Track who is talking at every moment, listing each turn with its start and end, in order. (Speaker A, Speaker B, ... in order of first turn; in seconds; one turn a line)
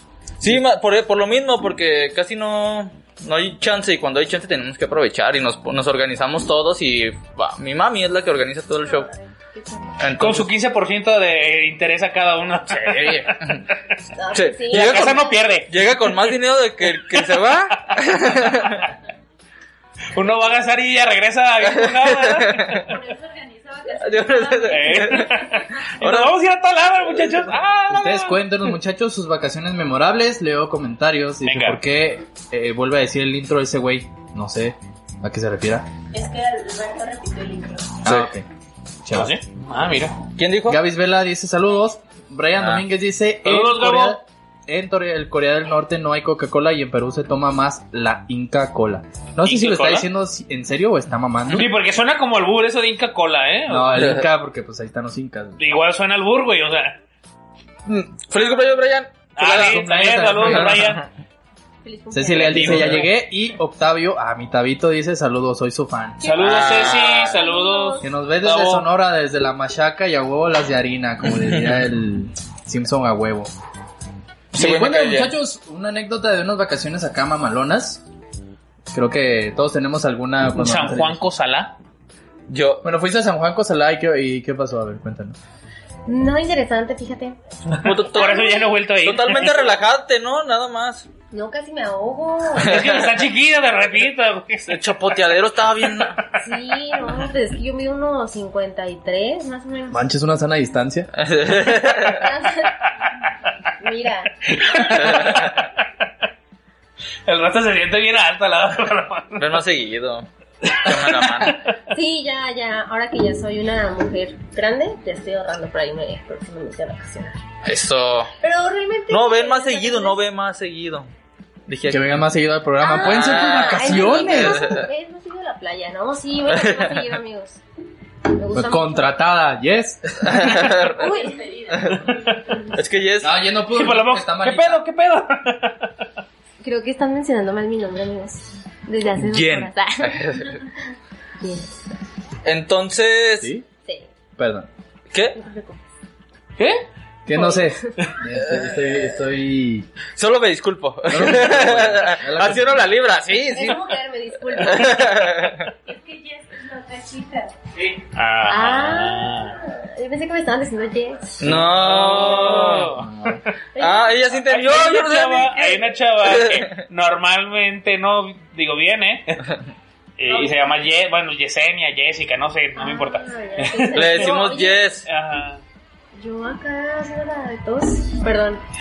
Speaker A: 0.4-9.1
Speaker B: 8.9-10.0
Speaker A: 10.0-10.5
Speaker C: 10.2-13.5
Speaker A: 12.8-13.6
Speaker B: 14.1-15.3
Speaker A: 14.3-18.9
Speaker C: 14.7-16.4
Speaker C: 16.9-17.4
Speaker C: 18.3-18.7
Speaker C: 20.1-22.9
Speaker A: 21.7-22.9
Speaker D: 22.8-25.6
Speaker A: 23.9-26.3
Speaker C: 24.6-28.6
Speaker E: 27.9-35.9
Speaker C: 31.4-31.8
Speaker D: 36.1-38.0
Speaker E: 38.0-38.5
Speaker E: 39.0-39.3
Speaker C: 39.1-40.2
Speaker A: 40.4-40.8
Speaker E: 40.7-51.7
Speaker C: 43.4-44.2
Speaker C: 49.5-50.1
Speaker C: 51.5-54.2
Speaker E: 53.7-55.6
Speaker C: 55.6-57.0
Speaker A: 57.9-61.1
Speaker C: 59.4-61.0
Speaker E: 59.4-60.9
Speaker B: 61.8-62.8
Speaker E: 62.1-66.3
Speaker C: 62.4-63.1
Speaker B: 66.2-68.1
Speaker C: 66.2-68.9
Speaker A: 66.4-67.4
Speaker E: 68.0-73.5
Speaker A: 74.5-75.3
Speaker E: 74.5-78.0
Speaker E: 78.9-81.2
Speaker C: 80.5-81.8
Speaker A: 82.5-82.9
Speaker E: 82.8-85.4
Speaker B: 86.1-87.4
Speaker A: 87.8-91.1
Speaker C: 88.1-89.6
Speaker B: 88.3-88.7
Speaker B: 91.3-92.8
Speaker C: 92.6-94.8
Speaker A: 92.6-93.2
Speaker A: 94.7-96.2
Speaker B: 96.3-100.1
Speaker E: 99.9-101.1
Speaker A: 101.2-102.3
Speaker B: 102.2-102.8
Speaker B: 103.8-104.3
Speaker C: 104.5-105.7
Speaker A: 104.8-105.7
Speaker C: 107.3-109.6
Speaker A: 109.4-111.7
Speaker C: 110.7-111.6
Speaker B: 111.9-117.4
Speaker A: 117.7-118.3
Speaker B: 118.4-120.2
Speaker A: 119.1-121.1
Speaker A: 121.7-122.1
Speaker E: 121.9-124.8
Speaker B: 122.8-127.6
Speaker A: 123.0-124.9
Speaker A: 126.5-127.1
Speaker B: 128.3-129.1
Speaker E: 128.5-130.7
Speaker A: 130.2-131.1
Speaker D: 131.0-132.2
Speaker B: 131.0-131.5
Speaker A: 131.7-133.4
Speaker E: 133.2-134.8
Speaker C: 133.7-135.9
Speaker B: 136.6-140.3
Speaker A: 139.2-140.6
Speaker B: 141.4-141.9
Speaker A: 142.4-143.5
Speaker E: 144.4-144.7
Speaker A: 145.1-145.4
Speaker B: 145.3-145.8
Speaker C: 146.6-146.8
Speaker E: 147.3-149.9
Speaker B: 147.4-147.7
Speaker A: 150.2-153.9
Speaker E: 151.1-152.9
Speaker B: 153.5-155.0
Speaker A: 154.5-155.7
Speaker D: 155.8-157.5
Speaker C: 157.9-159.6
Speaker B: 158.5-161.4
Speaker A: 161.4-163.1
Speaker C: 161.5-163.4
Speaker E: 162.9-163.4
Speaker B: 163.8-164.2
Speaker A: 163.8-166.7
Speaker C: 164.3-169.5
Speaker C: 170.2-174.4
Speaker B: 172.8-174.9
Speaker A: 173.9-175.1
Speaker C: 175.1-175.6
Speaker B: 176.2-178.6